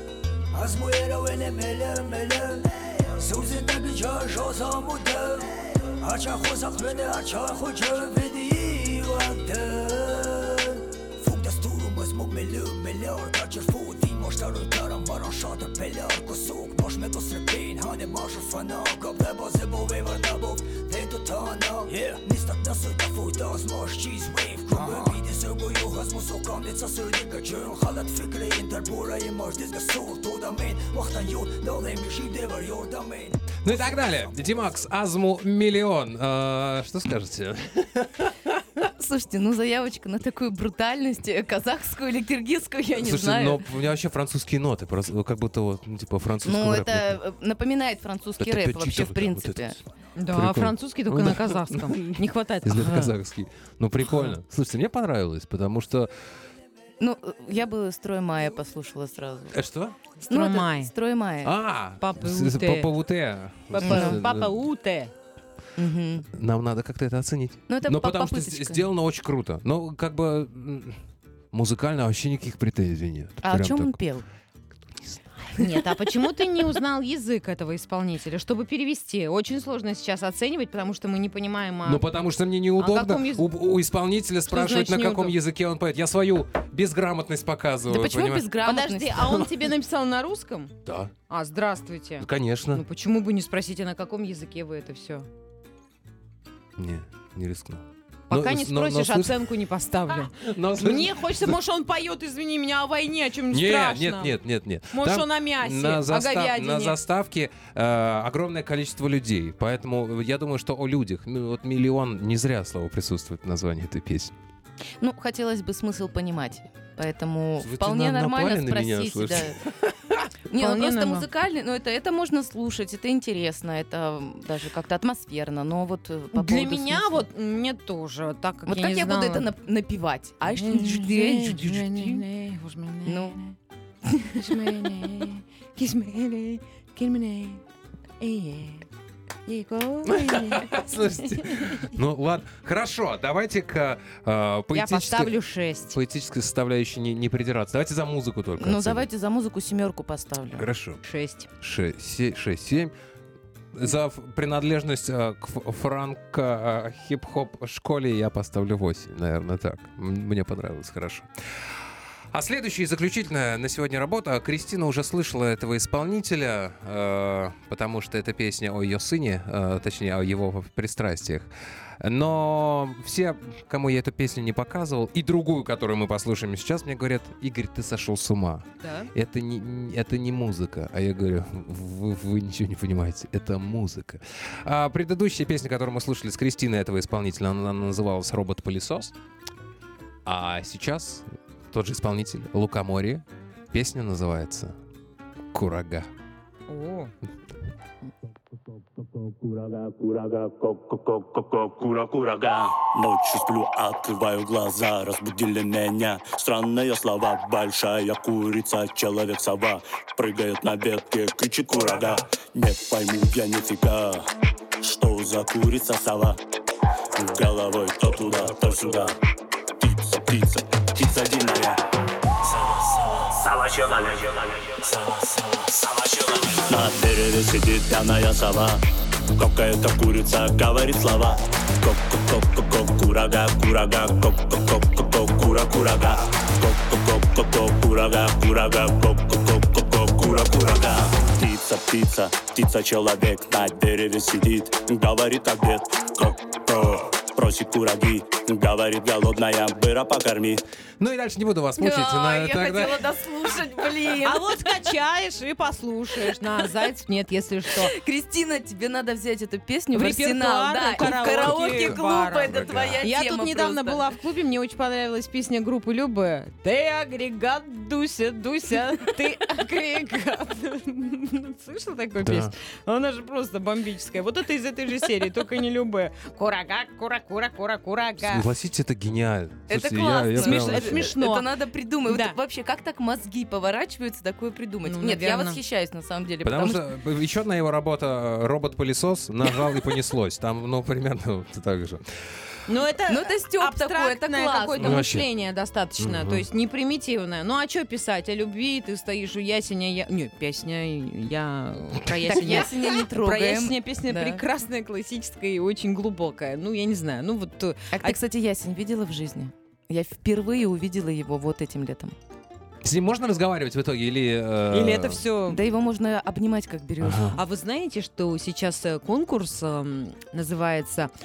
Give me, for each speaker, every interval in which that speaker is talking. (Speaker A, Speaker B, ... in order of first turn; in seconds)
Speaker A: 0.5-33.6
Speaker B: 33.6-38.6, 43.0-47.2, 48.4-49.8, 50.3-56.1, 59.5-60.0, 61.4-64.6, 66.3-71.0, 71.5-74.0, 74.9-75.3, 81.8-88.5, 90.8-91.1, 92.2-92.8, 96.8-99.5, 100.3-101.6, 103.5-114.3, 117.6-120.3, 140.1-149.1, 150.6-151.0, 151.6-152.9, 153.7-161.3, 162.3-189.2, 190.2-194.8, 195.5-196.1, 251.0-253.1, 261.0-263.0, 272.2-272.5, 278.2-281.1, 286.4-292.0, 294.8-295.3, 296.0-296.4, 312.8-315.2, 317.0-317.4
Speaker C: 38.8-43.6, 46.4-49.8, 57.0-59.6, 60.3-61.5, 63.8-64.2, 65.8-66.3, 67.7-68.9, 73.4-74.3, 87.9-89.6, 115.0-119.6, 120.5-127.2, 128.7-132.2, 133.1-133.4, 148.6-150.7, 251.8-254.7, 257.7-264.1, 279.7-286.8, 293.1-295.1, 302.3-304.4, 307.9-312.2, 315.5-317.4
Speaker D: 50.2-53.1, 60.2-60.9, 62.0-62.9, 63.8-65.1, 75.5-82.1, 82.8-83.5, 84.5-85.4, 88.6-90.7, 91.3-95.3, 98.3-104.4, 104.9-107.0, 120.5-121.3, 126.3-129.5, 130.6-133.6, 134.2-137.6, 138.2-138.9, 139.5-140.7, 141.5-141.9, 144.7-146.0, 151.1-151.5, 178.8-179.1, 196.7-197.1, 254.2-257.9, 259.9-278.5, 280.4-281.5, 282.1-282.4, 284.9-285.6, 292.7-308.2, 314.7-315.6, 317.4-321.1
Speaker E: 198.7-214.3, 214.8-216.4, 217.2-219.2, 219.8-221.8, 222.7-228.8, 229.3-250.6